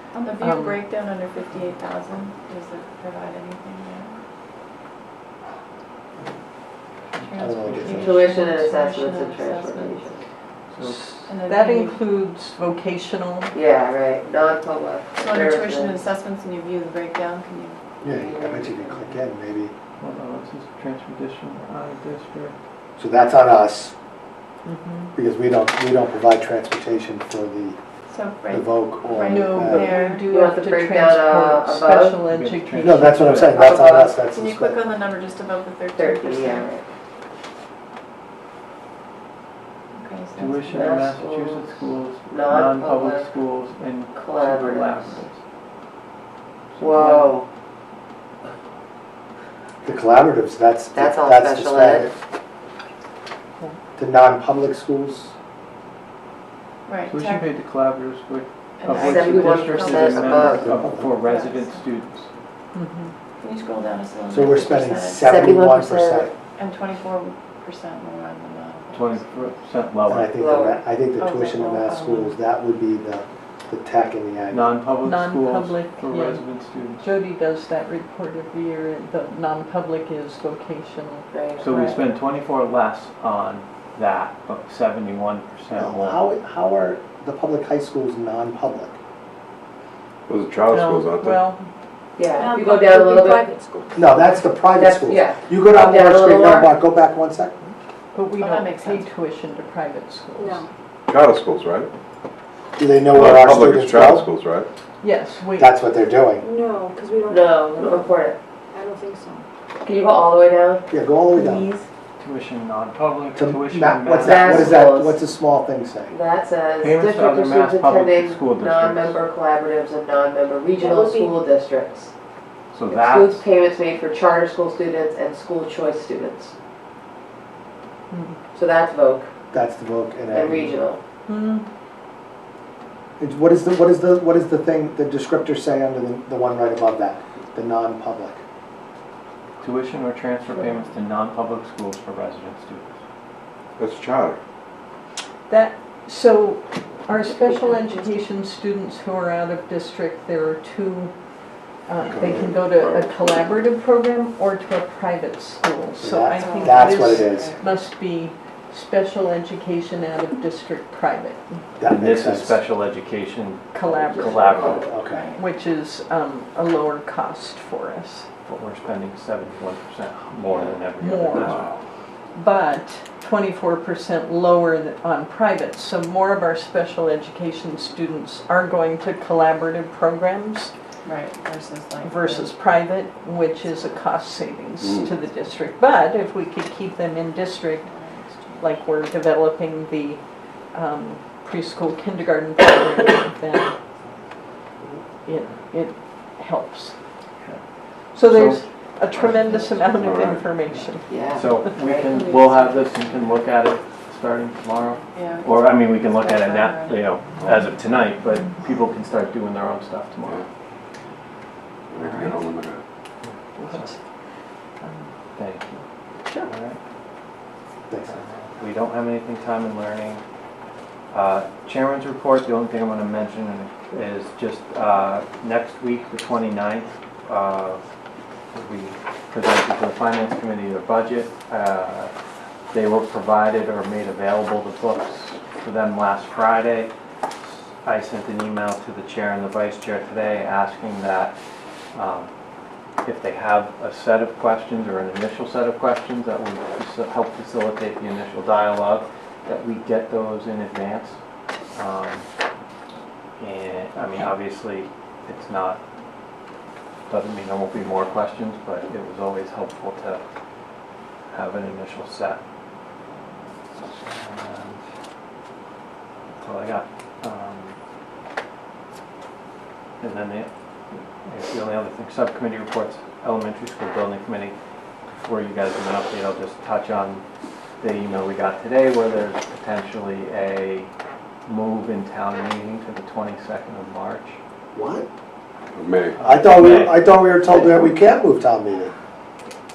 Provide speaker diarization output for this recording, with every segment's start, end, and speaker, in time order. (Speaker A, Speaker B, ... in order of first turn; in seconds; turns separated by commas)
Speaker A: 0.2-4.1, Speaker B: 0.4-0.8, Speaker C: 7.1-8.1, Speaker A: 7.2-10.1, Speaker D: 7.4-8.3, Speaker E: 7.8-10.2, Speaker C: 10.7-11.1, Speaker B: 10.8-13.5, Speaker A: 11.2-12.0, Speaker E: 13.5-16.0, Speaker A: 15.1-17.8, Speaker D: 18.0-19.7, Speaker E: 18.0-19.2, Speaker C: 20.0-22.6, Speaker D: 23.0-23.9, Speaker B: 24.6-25.1, Speaker D: 25.1-27.8, Speaker A: 28.1-30.2, Speaker D: 28.5-29.9, Speaker B: 29.3-33.5, Speaker E: 30.3-32.2, Speaker C: 32.3-33.7, Speaker D: 32.8-34.8, Speaker E: 33.5-34.2, Speaker A: 34.3-36.7, Speaker E: 36.0-36.8, Speaker A: 39.9-41.0, Speaker C: 40.4-45.4, Speaker E: 40.7-43.3, Speaker E: 44.1-45.2, Speaker C: 46.7-47.4, Speaker E: 46.8-47.5, Speaker D: 49.8-52.1, Speaker E: 50.9-52.1, Speaker D: 54.0-55.3, Speaker A: 56.9-57.5, Speaker C: 57.1-62.3, Speaker A: 58.8-60.6, Speaker E: 58.9-60.7, Speaker D: 60.6-61.2, Speaker A: 61.2-61.8, Speaker B: 62.7-63.1, Speaker A: 63.4-65.2, Speaker D: 64.3-66.3, Speaker E: 65.2-66.3, Speaker A: 66.5-69.5, Speaker C: 68.9-70.3, Speaker D: 70.0-74.8, Speaker E: 70.3-70.8, Speaker A: 71.2-72.0, Speaker B: 71.9-72.3, Speaker C: 74.5-77.1, Speaker B: 75.0-76.4, Speaker B: 77.0-82.0, Speaker E: 81.3-81.8, Speaker C: 81.6-86.2, Speaker D: 85.7-89.0, Speaker F: 90.3-91.4, Speaker B: 90.7-91.6, Speaker E: 92.2-93.5, Speaker G: 92.3-93.8, Speaker D: 94.0-97.6, Speaker E: 94.8-96.7, Speaker B: 98.1-100.7, Speaker A: 98.4-99.1, Speaker G: 100.4-100.7, Speaker F: 101.1-101.9, Speaker D: 102.8-104.2, Speaker F: 103.1-104.7, Speaker B: 105.0-105.8, Speaker D: 105.6-106.5, Speaker G: 106.4-108.2, Speaker E: 107.3-108.4, Speaker G: 108.7-109.4, Speaker E: 109.8-110.9, Speaker D: 110.9-111.7, Speaker C: 112.2-114.8, Speaker D: 113.3-116.2, Speaker E: 114.2-115.2, Speaker E: 116.1-122.1, Speaker C: 116.8-119.2, Speaker G: 120.8-121.4, Speaker C: 122.7-123.5, Speaker E: 122.9-126.5, Speaker B: 128.1-128.4, Speaker E: 128.5-129.3, Speaker D: 129.5-130.7, Speaker E: 130.3-131.0, Speaker B: 131.3-131.7, Speaker D: 133.2-138.4, Speaker C: 139.6-142.9, Speaker F: 143.8-144.4, Speaker B: 145.5-151.1, Speaker B: 151.8-161.6, Speaker F: 152.0-153.3, Speaker D: 156.0-157.5, Speaker A: 156.3-157.7, Speaker D: 161.8-162.6, Speaker C: 161.8-164.9, Speaker B: 163.7-164.8, Speaker D: 164.6-165.2, Speaker A: 165.1-165.4, Speaker B: 165.3-168.3, Speaker C: 168.4-171.7, Speaker B: 171.0-171.6, Speaker B: 172.3-180.7, Speaker A: 181.0-182.5, Speaker B: 182.0-187.9, Speaker A: 187.8-188.7, Speaker B: 188.6-193.7, Speaker B: 195.2-197.0, Speaker B: 198.1-201.1, Speaker C: 198.2-198.6, Speaker F: 199.9-200.4, Speaker E: 201.1-202.1, Speaker C: 201.3-210.4, Speaker G: 202.1-202.8, Speaker A: 205.1-207.0, Speaker F: 211.9-212.8, Speaker C: 212.0-212.4, Speaker C: 213.2-213.9, Speaker B: 213.6-214.0, Speaker C: 215.3-215.8, Speaker B: 216.2-216.5, Speaker C: 216.4-216.8, Speaker D: 217.9-218.2, Speaker C: 218.1-220.2, Speaker C: 221.1-227.8, Speaker C: 228.5-232.1, Speaker C: 232.7-236.9, Speaker C: 237.4-241.3, Speaker C: 241.9-242.3, Speaker C: 243.0-251.2, Speaker C: 251.7-252.3, Speaker C: 253.4-255.8, Speaker C: 257.1-260.2, Speaker C: 261.3-262.4, Speaker C: 264.0-264.8, Speaker C: 266.4-267.8, Speaker C: 270.0-274.6, Speaker C: 275.1-277.2, Speaker C: 277.8-280.9, Speaker C: 281.4-284.4, Speaker D: 284.7-285.1, Speaker F: 285.7-286.2, Speaker C: 286.2-287.9, Speaker D: 286.2-288.9